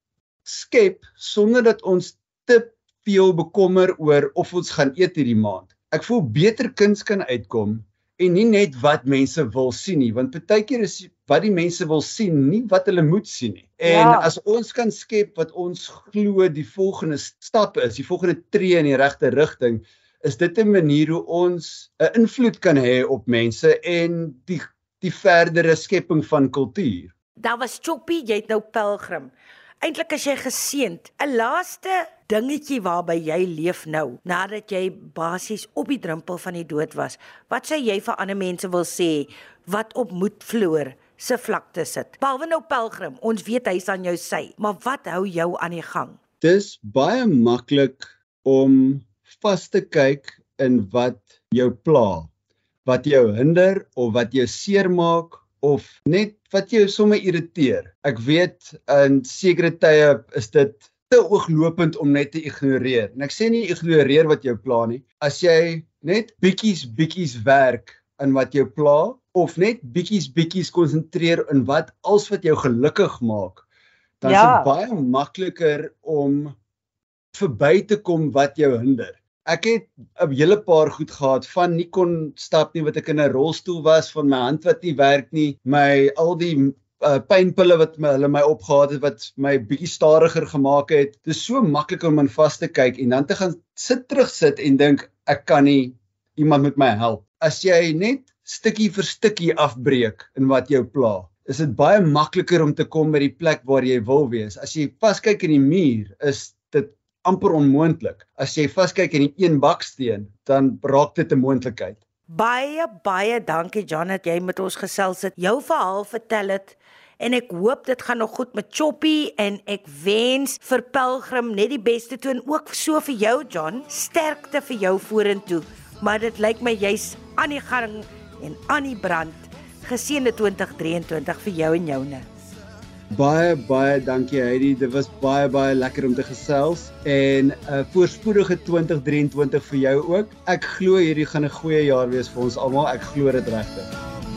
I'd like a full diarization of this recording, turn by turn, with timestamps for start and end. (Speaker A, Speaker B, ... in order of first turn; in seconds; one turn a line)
Speaker A: 0.4-27.1
Speaker B: 13.8-14.3
Speaker B: 27.4-46.2
Speaker A: 46.4-52.3
Speaker A: 52.8-73.6
Speaker A: 74.2-76.5
Speaker B: 74.2-74.7
Speaker A: 77.3-112.0
Speaker B: 112.3-132.2
Speaker A: 133.1-143.9